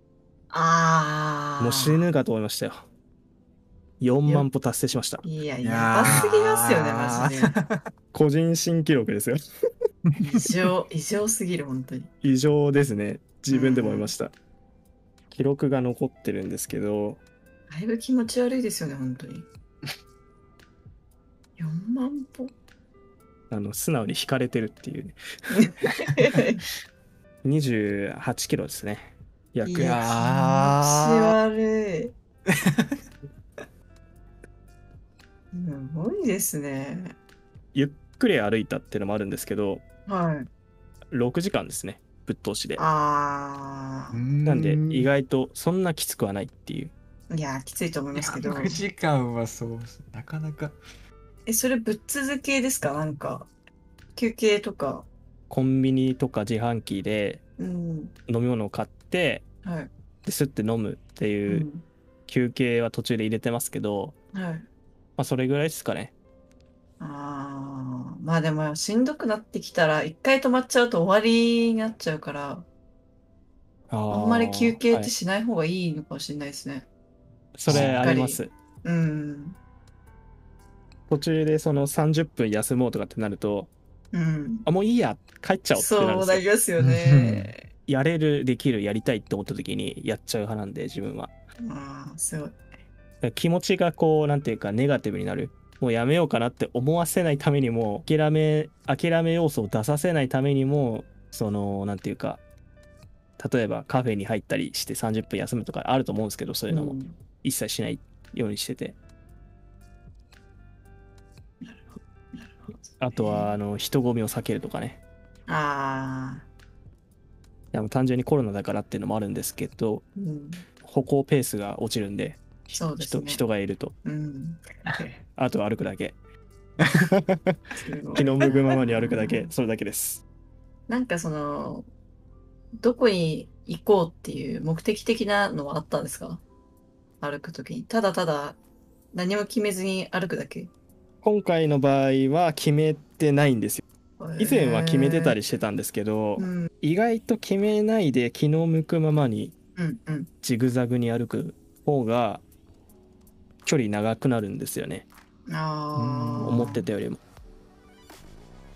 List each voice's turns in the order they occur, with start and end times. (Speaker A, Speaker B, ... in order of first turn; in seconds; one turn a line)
Speaker A: 0.5-2.0
Speaker B: 1.6-2.9
Speaker B: 4.0-5.2
Speaker A: 5.2-7.5
Speaker C: 5.6-7.8
Speaker B: 8.1-9.4
Speaker C: 10.1-10.4
Speaker A: 10.2-12.1
Speaker B: 12.2-14.3
Speaker A: 13.5-14.1
Speaker B: 15.3-17.2
Speaker A: 17.7-19.5
Speaker A: 21.6-22.5
Speaker B: 23.5-25.2
Speaker A: 25.5-26.6
Speaker B: 27.4-29.9
Speaker A: 29.6-32.1
Speaker C: 29.7-31.3
Speaker C: 32.7-32.9
Speaker A: 35.5-37.1
Speaker B: 37.7-39.8
Speaker A: 40.1-40.5
Speaker B: 41.1-42.8
Speaker A: 42.8-44.2
Speaker C: 44.1-45.1
Speaker B: 44.5-46.9
Speaker A: 47.3-48.8
Speaker C: 48.2-50.8
Speaker A: 51.5-53.5
Speaker A: 54.2-55.1
Speaker B: 55.5-57.4
Speaker A: 57.6-58.1
Speaker B: 58.3-59.5
Speaker A: 59.6-59.9
Speaker B: 60.2-61.7
Speaker A: 61.5-61.9
Speaker B: 62.3-64.2
Speaker A: 64.3-64.7
Speaker B: 65.2-66.1
Speaker A: 67.0-72.7
Speaker B: 73.9-75.1
Speaker A: 74.1-76.9
Speaker B: 77.5-78.5
Speaker C: 77.7-78.1
Speaker A: 77.7-79.6
Speaker B: 81.1-83.7
Speaker A: 84.1-84.7
Speaker B: 84.7-86.5
Speaker A: 85.7-87.6
Speaker C: 86.8-87.5
Speaker B: 87.9-91.3
Speaker A: 91.6-92.6
Speaker B: 93.2-102.4
Speaker B: 103.4-109.0
Speaker A: 106.7-107.2
Speaker A: 111.6-113.5
Speaker B: 113.0-115.0
Speaker A: 115.5-116.5
Speaker B: 117.7-120.0
Speaker A: 120.2-120.6
Speaker B: 120.8-124.0
Speaker A: 122.7-123.4
Speaker A: 124.0-124.6
Speaker B: 125.4-126.2
Speaker A: 127.8-129.5
Speaker B: 128.2-130.2
Speaker A: 130.9-131.9
Speaker A: 132.8-136.4
Speaker A: 137.2-138.6
Speaker A: 139.1-140.7
Speaker B: 141.2-143.8
Speaker A: 144.2-145.4
Speaker B: 144.4-149.5
Speaker A: 146.4-146.7
Speaker A: 149.8-150.3
Speaker B: 150.4-152.4
Speaker B: 153.7-155.1
Speaker A: 155.5-156.9
Speaker C: 155.9-156.7
Speaker B: 156.4-157.2